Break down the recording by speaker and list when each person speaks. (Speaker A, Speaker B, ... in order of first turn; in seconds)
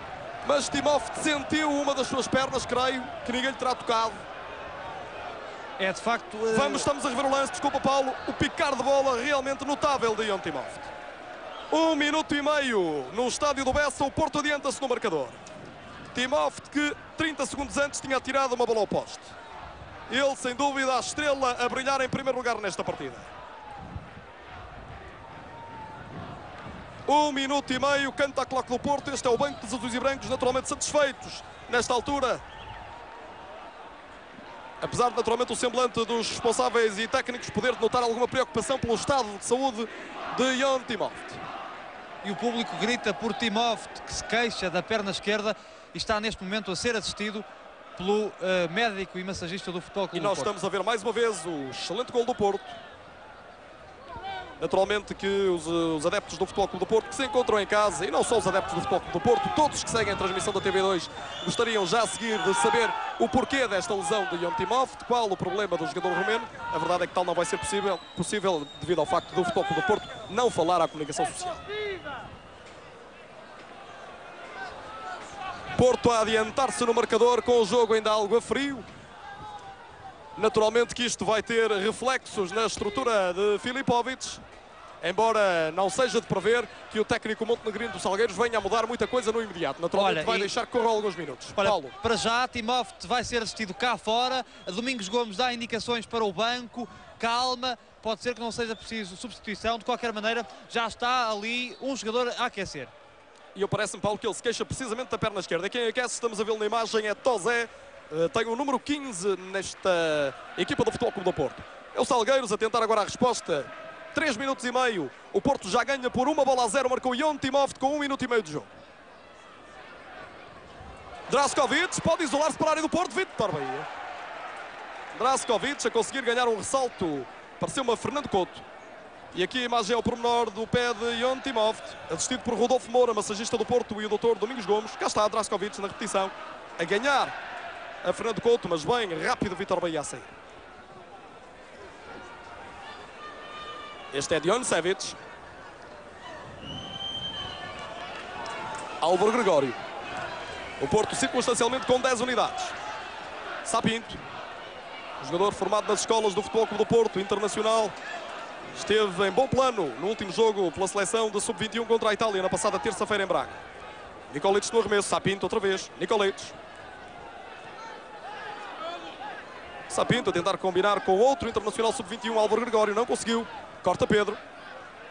Speaker A: 0.4-4.2, 6.5-10.9, 11.7-15.4, 16.1-19.3, 20.1-23.3, 27.1-32.4, 34.8-41.4, 50.1-52.8, 54.6-71.6, 75.8-78.9, 80.4-84.4, 85.0-92.0, 103.5-118.7, 121.3-123.9, 125.1-128.7, 129.3-137.3, 138.0-140.3, 144.1-145.2, 149.0-149.8, 150.8-152.8, 153.7-154.2, 155.2-157.9, 158.8-163.6, 164.3-166.6, 169.9-174.4
Speaker B: 5.8-6.9, 42.2-47.5, 48.0-50.5, 89.9-90.5, 91.6-102.9